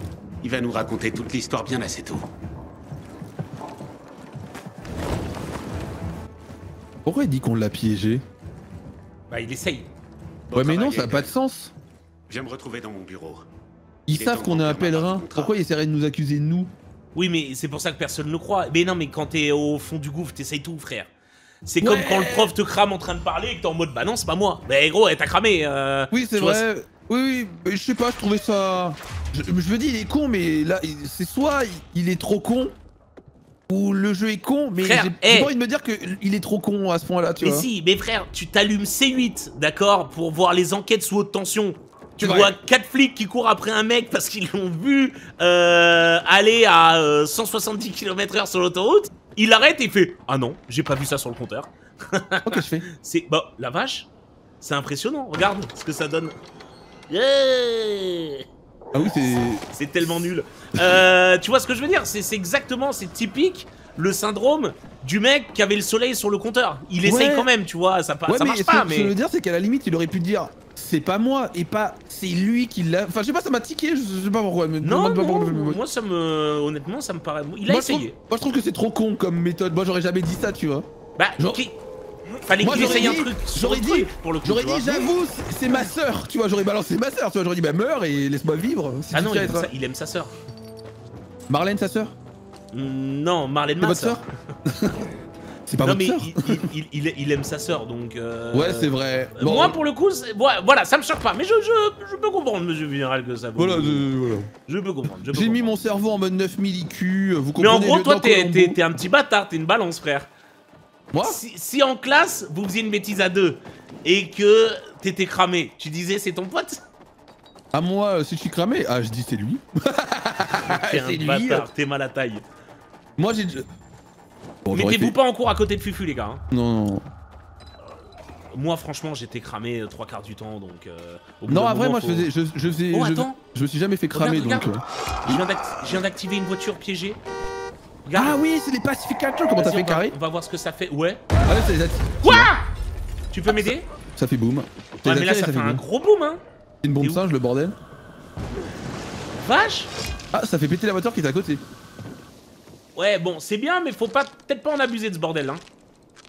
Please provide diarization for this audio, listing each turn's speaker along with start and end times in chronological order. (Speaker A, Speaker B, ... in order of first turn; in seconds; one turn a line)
Speaker A: 0.4-2.2
Speaker B: 7.0-8.2
Speaker C: 9.3-9.9
Speaker A: 10.5-11.3
Speaker B: 10.5-11.7
Speaker A: 12.3-13.4
Speaker B: 14.1-16.7
Speaker A: 14.1-15.6
Speaker C: 17.1-21.1
Speaker C: 21.6-26.6
Speaker B: 21.8-22.5
Speaker B: 26.1-32.7
Speaker B: 33.7-37.7
Speaker C: 34.8-35.5
Speaker C: 37.4-54.1
Speaker B: 42.2-42.5
Speaker B: 52.4-52.9
Speaker C: 54.6-56.3
Speaker C: 57.1-58.4
Speaker B: 58.9-59.6
Speaker C: 59.7-69.1
Speaker B: 67.0-67.5
Speaker B: 68.3-75.8
Speaker C: 74.8-78.2
Speaker B: 77.7-80.8
Speaker C: 81.2-81.8
Speaker C: 82.4-85.0
Speaker B: 82.6-89.7
Speaker C: 89.1-90.3
Speaker B: 91.5-92.1
Speaker C: 92.7-94.2
Speaker B: 93.8-95.0
Speaker B: 95.7-96.7
Speaker C: 95.8-104.1
Speaker B: 98.5-99.8
Speaker B: 103.5-104.5
Speaker C: 104.7-105.7
Speaker B: 105.3-108.8
Speaker C: 107.6-110.3
Speaker B: 111.1-111.4
Speaker C: 111.2-116.8
Speaker B: 117.7-121.7
Speaker C: 120.5-122.4
Speaker B: 123.2-123.7
Speaker B: 124.7-125.2
Speaker C: 124.7-126.4
Speaker B: 126.5-127.1
Speaker C: 128.5-132.3
Speaker B: 131.5-135.4
Speaker C: 132.9-133.4
Speaker C: 134.1-137.2
Speaker C: 138.0-138.4
Speaker B: 138.2-140.1
Speaker C: 139.5-141.2
Speaker B: 141.4-142.5
Speaker C: 142.2-142.6
Speaker C: 143.3-143.9
Speaker B: 143.5-145.8
Speaker C: 145.0-146.4
Speaker B: 146.8-147.8
Speaker C: 149.3-149.9
Speaker B: 150.3-151.6
Speaker C: 152.9-155.6